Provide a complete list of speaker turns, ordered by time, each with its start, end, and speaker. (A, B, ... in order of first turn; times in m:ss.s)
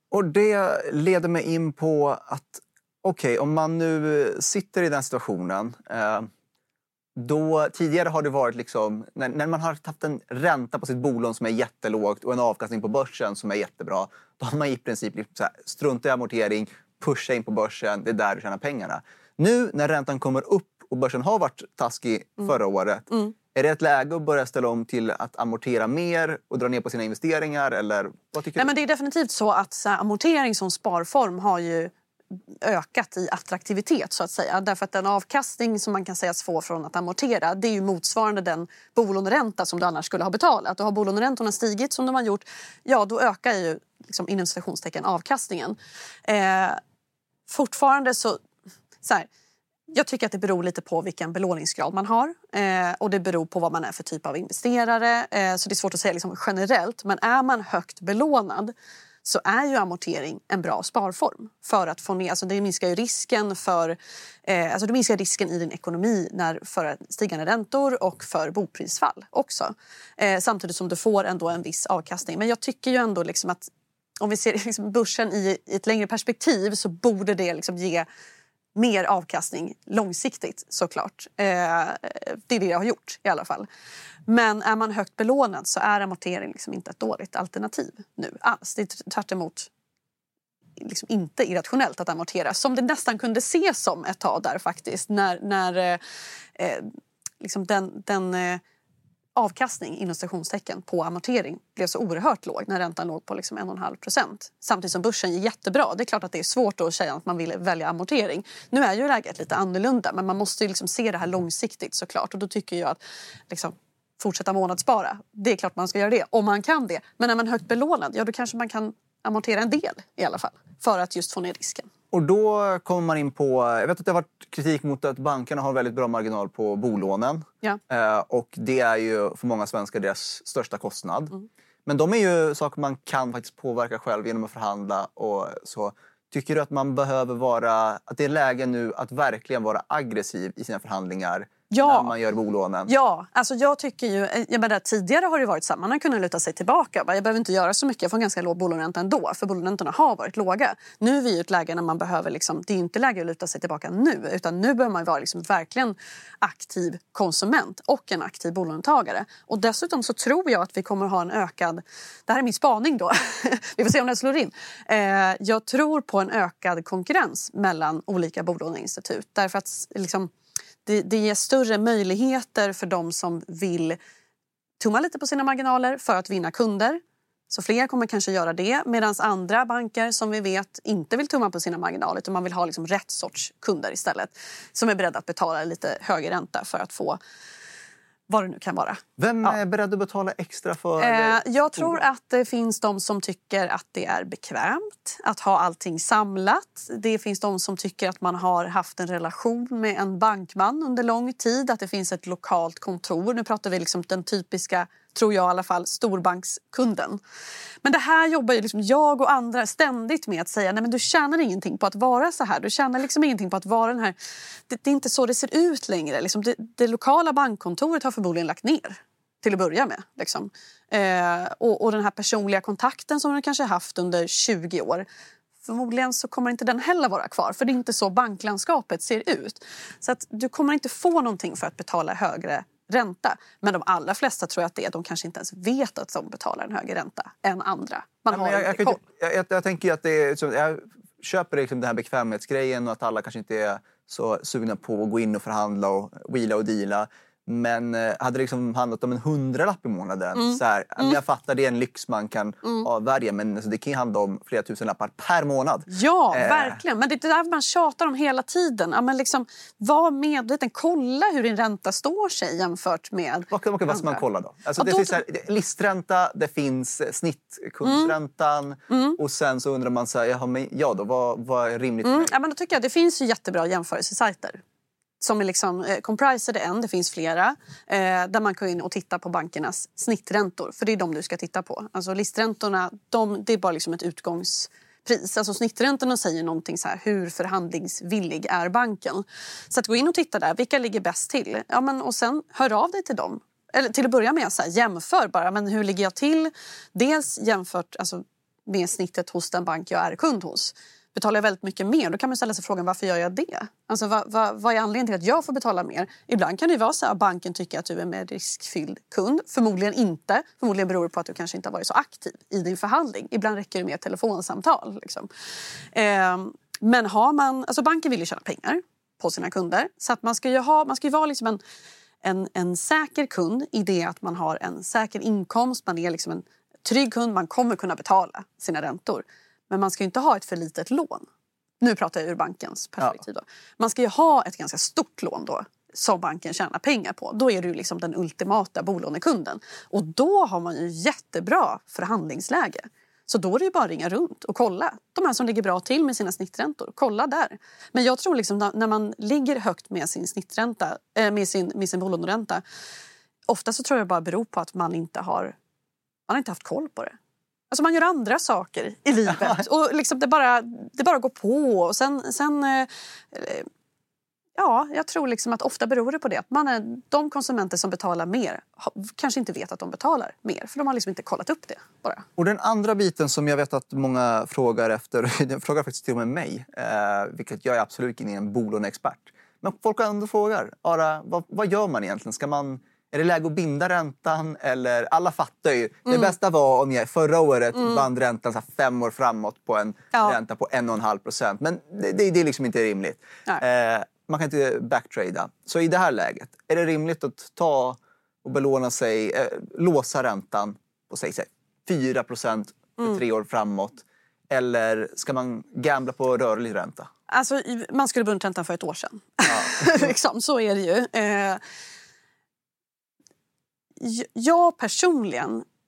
0:00.1-0:06.3 A
0:07.2-0:28.7 A
0:28.6-0:46.8 B
0:47.5-0:48.4 B
0:49.0-0:49.3 B
0:49.9-0:58.7 B
0:59.2-1:13.7 B
1:14.2-1:18.0 B
1:18.8-1:23.7 B
1:24.3-1:29.7 B
1:30.8-1:36.0 B
1:36.6-1:38.6 B
1:39.4-1:53.0 B
1:53.5-2:01.9 B
2:02.1-2:11.3 A
2:11.8-2:22.9 A
2:21.7-2:22.1 B
2:22.9-2:50.3 B
2:50.8-2:54.0 B
2:54.8-3:07.2 B
3:08.3-3:09.6 B
3:09.2-3:12.0 A
3:11.0-3:27.2 B
3:27.8-3:34.1 B
3:34.7-3:45.0 B
3:45.6-3:59.0 B
3:58.3-4:16.8 A
4:10.3-4:11.2 B
4:15.9-4:24.2 B
4:23.5-4:32.3 A
4:24.8-4:25.2 B
4:27.8-4:28.1 B
4:28.9-4:29.2 B
4:32.0-4:34.6 B
4:35.2-5:15.3 B
5:15.9-5:21.6 B
5:22.2-5:31.3 B
5:31.8-5:52.6 B
5:53.5-5:55.6 B
5:56.3-5:57.2 B
5:57.7-6:03.7 B
5:59.3-5:59.6 A
6:04.5-6:12.2 B
6:12.4-6:47.1 A
6:26.1-6:26.3 B
6:47.3-6:51.6 B
6:49.5-6:50.1 A
6:54.0-6:55.6 B